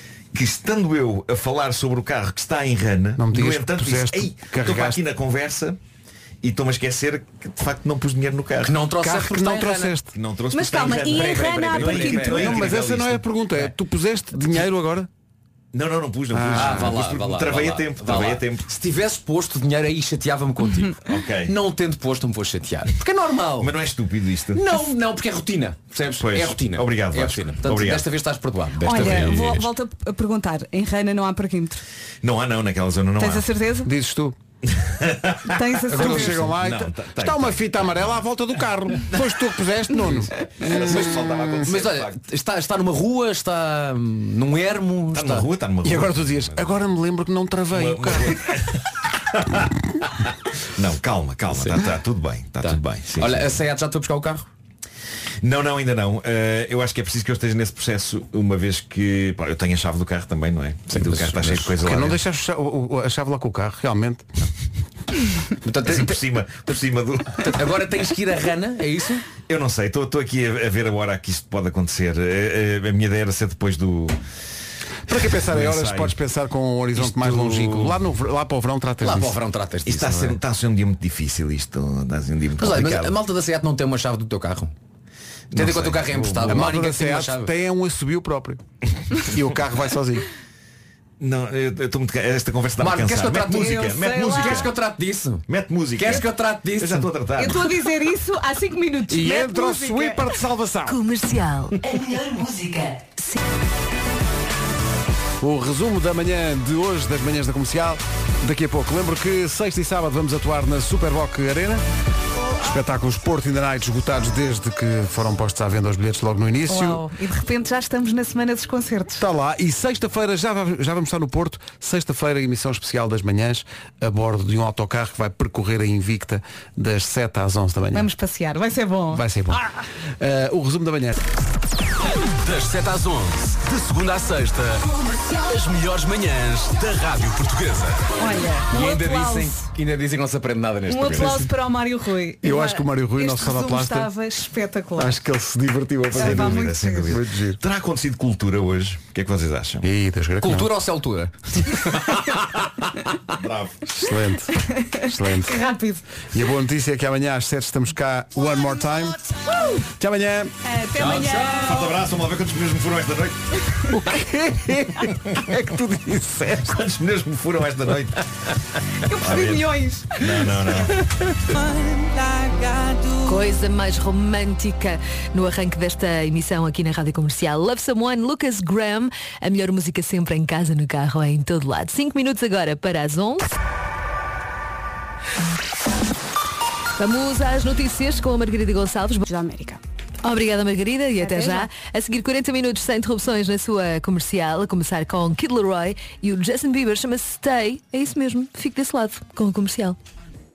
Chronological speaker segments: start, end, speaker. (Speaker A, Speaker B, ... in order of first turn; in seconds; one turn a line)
Speaker A: 0.3-5.8
Speaker B: 3.2-5.0
Speaker A: 6.4-8.8
Speaker C: 8.6-9.9
Speaker B: 9.0-10.1
Speaker A: 10.1-13.2
Speaker D: 10.5-12.4
Speaker C: 10.7-13.0
Speaker B: 12.3-15.1
Speaker A: 15.7-18.7
Speaker B: 16.3-16.9
Speaker C: 16.5-23.8
Speaker A: 21.0-21.5
Speaker A: 23.6-24.6
Speaker C: 24.5-29.7
Speaker A: 26.0-28.1
Speaker D: 28.8-31.8
Speaker A: 32.2-33.5
Speaker D: 33.2-33.9
Speaker B: 33.9-34.4
Speaker A: 34.7-38.2
Speaker D: 35.5-36.5
Speaker B: 35.9-41.6
Speaker A: 39.1-39.4
Speaker A: 40.6-42.2
Speaker C: 40.8-45.5
Speaker A: 45.1-46.7
Speaker B: 45.8-48.5
Speaker A: 47.7-49.7
Speaker A: 50.8-53.5
Speaker C: 51.5-51.8
Speaker C: 52.6-54.5
Speaker A: 55.4-62.2
Speaker C: 60.9-61.8
Speaker B: 61.8-64.3
Speaker C: 65.7-66.2
Speaker A: 65.8-67.7
Speaker C: 67.4-69.3
Speaker A: 69.5-74.2
Speaker B: 75.1-79.4
Speaker A: 75.1-76.2
Speaker A: 77.0-78.0
Speaker C: 79.0-80.4
Speaker A: 79.9-83.2
Speaker C: 82.6-84.7
Speaker A: 85.5-86.6
Speaker C: 85.5-87.5
Speaker B: 86.3-88.6
Speaker B: 89.3-90.3
Speaker A: 91.2-94.7
Speaker C: 92.8-97.1
Speaker D: 93.5-94.7
Speaker A: 95.5-97.7
Speaker D: 97.4-100.3
Speaker B: 99.1-101.0
Speaker E: 100.9-103.4
Speaker B: 105.4-111.8
Speaker B: 112.6-117.0
Speaker D: 116.7-119.2
Speaker B: 119.2-128.1
Speaker D: 127.9-129.7
Speaker B: 129.1-129.7
Speaker B: 130.2-131.2
Speaker F: 132.4-134.8
Speaker F: 135.5-138.0
Speaker D: 138.2-139.7
Speaker C: 138.7-141.5
Speaker D: 140.9-145.1
Speaker B: 142.4-144.1
Speaker B: 145.0-147.6
Speaker A: 146.1-149.9
Speaker D: 146.1-147.1
Speaker B: 149.8-150.7
Speaker C: 150.4-152.5
Speaker A: 153.3-153.9
Speaker B: 153.9-155.6
Speaker D: 154.8-156.2
Speaker B: 156.3-159.2
Speaker B: 159.7-160.6
Speaker D: 160.6-162.0
Speaker C: 161.0-161.9
Speaker A: 161.6-163.6
Speaker B: 163.9-166.8
Speaker A: 166.6-168.2
Speaker D: 169.0-173.3
Speaker A: 169.1-171.0
Speaker E: 173.2-183.5
Speaker E: 187.0-189.2
Speaker D: 189.2-189.8
Speaker E: 190.2-200.0
Speaker D: 191.2-191.7